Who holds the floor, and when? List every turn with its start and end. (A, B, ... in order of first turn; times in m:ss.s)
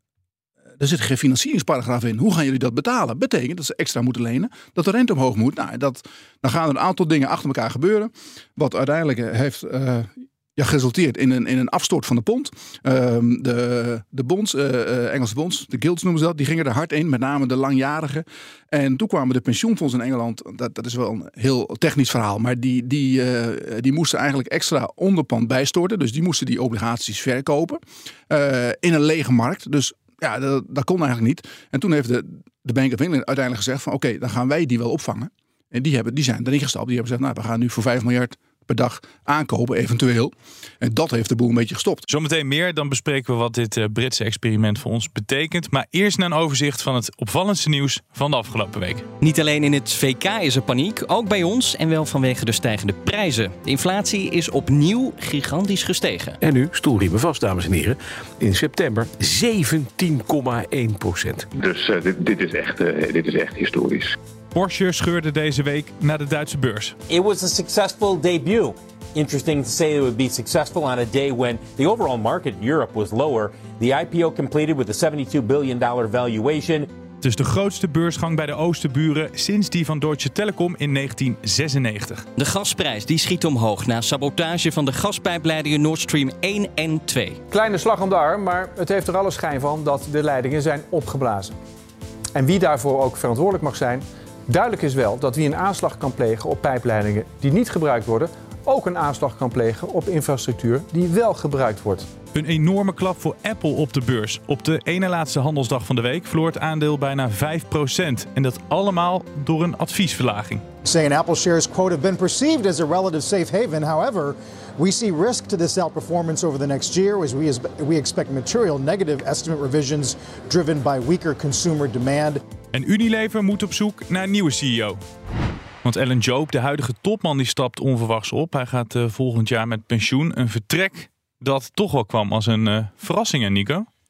0:00.8-0:42.0 A
0:42.1-0:49.1 B
0:49.2-0:56.4 C
0:56.4-1:01.5 D
1:01.8-1:04.1 E
1:04.5-1:07.0 B
1:07.1-1:16.9 F
1:17.2-1:22.3 B
1:22.4-1:27.4 C
1:27.5-1:31.6 G
1:32.4-1:42.1 G
1:42.3-1:50.6 B
1:50.8-2:02.4 H
2:02.7-2:05.0 B
2:05.8-2:13.9 B